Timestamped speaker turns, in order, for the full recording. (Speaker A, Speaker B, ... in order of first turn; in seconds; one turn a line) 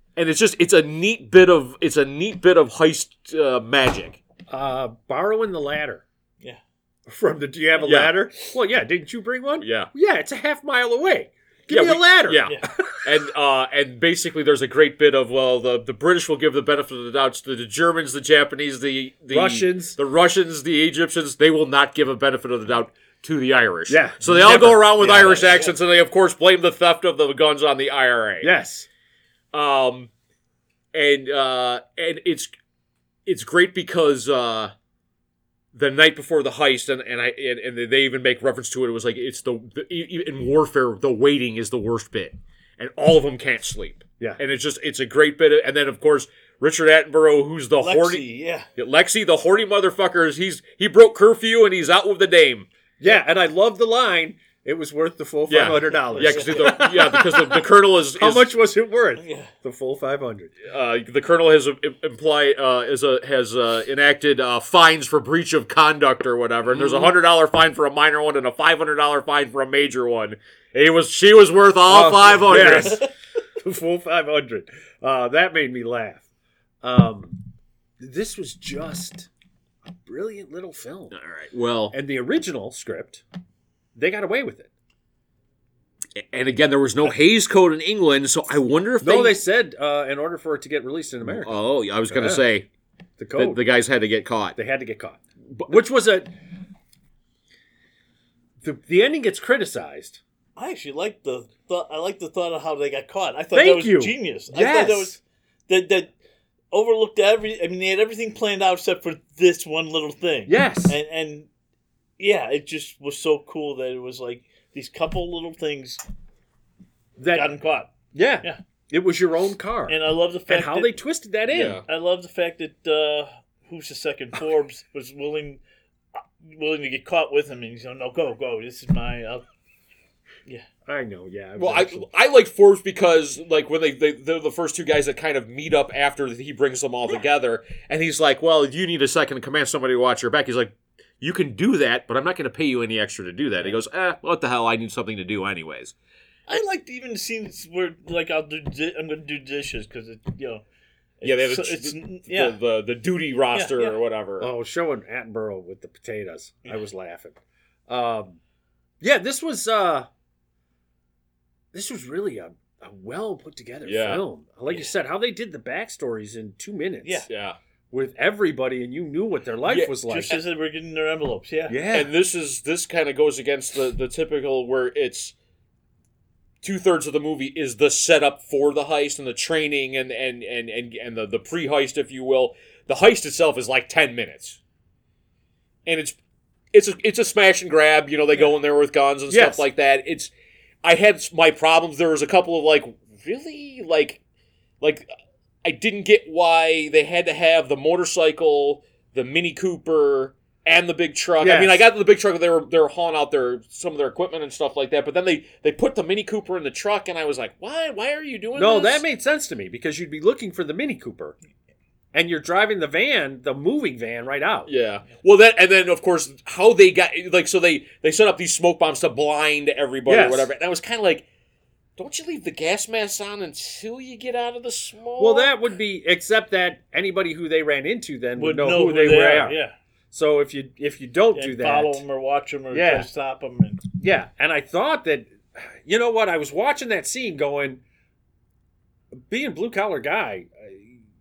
Speaker A: 0.1-4.2
Speaker B: 4.5-6.0
Speaker B: 7.0-13.0
Speaker A: 7.8-8.2
Speaker A: 9.6-9.9
Speaker A: 11.7-28.5
Speaker B: 19.3-20.0
Speaker B: 23.9-25.7
Speaker B: 28.4-28.9
Speaker A: 29.5-30.1
Speaker A: 30.9-32.5
Speaker A: 33.2-34.7
Speaker A: 35.7-48.2
Speaker C: 47.8-48.7
Speaker A: 48.8-52.7
Speaker B: 53.0-60.5
Speaker A: 55.5-58.5
Speaker C: 56.2-56.8
Speaker C: 59.2-59.5
Speaker A: 60.6-73.1
Speaker B: 66.7-67.1
Speaker B: 71.9-76.2
Speaker C: 72.5-73.1
Speaker B: 76.8-77.4
Speaker B: 78.0-79.3
Speaker B: 80.0-81.1
Speaker A: 81.1-81.9
Speaker B: 81.9-83.2
Speaker B: 83.9-84.7
Speaker A: 86.2-89.4
Speaker B: 89.0-91.5
Speaker A: 91.2-92.7
Speaker B: 92.1-92.4
Speaker B: 93.2-93.6
Speaker A: 93.3-94.5
Speaker B: 94.5-96.3
Speaker B: 98.6-100.2
Speaker C: 100.5-106.1
Speaker B: 103.5-105.2
Speaker C: 106.7-111.5
Speaker B: 110.5-111.0
Speaker C: 112.2-116.0
Speaker B: 117.2-117.5
Speaker C: 117.3-118.6
Speaker B: 118.1-121.8
Speaker C: 119.9-120.9
Speaker A: 121.5-121.8
Speaker C: 121.8-125.6
Speaker C: 126.2-129.4
Speaker B: 130.8-132.1
Speaker A: 131.6-145.9
Speaker C: 146.5-150.6
Speaker C: 151.2-152.5
Speaker A: 151.2-154.5
Speaker C: 153.5-154.0
Speaker B: 154.4-158.4
Speaker B: 159.0-160.1
Speaker B: 161.7-167.3
Speaker A: 163.8-164.2
Speaker A: 167.3-167.6
Speaker B: 167.9-170.4
Speaker A: 169.7-169.9
Speaker C: 170.0-171.8
Speaker B: 171.7-172.1
Speaker A: 171.9-175.3
Speaker A: 176.6-184.6
Speaker A: 185.8-186.2
Speaker A: 186.7-190.3
Speaker B: 189.3-189.7
Speaker A: 190.8-194.2
Speaker A: 194.8-195.1
Speaker A: 195.6-209.0
Speaker B: 201.4-201.9
Speaker B: 208.5-211.4
Speaker B: 212.1-214.7
Speaker A: 214.7-221.3
Speaker B: 220.1-220.5
Speaker A: 222.0-225.5
Speaker B: 225.2-229.6
Speaker C: 228.4-229.7
Speaker B: 230.1-232.0
Speaker C: 231.3-233.8
Speaker B: 232.7-233.1
Speaker B: 234.0-237.8
Speaker B: 239.1-241.0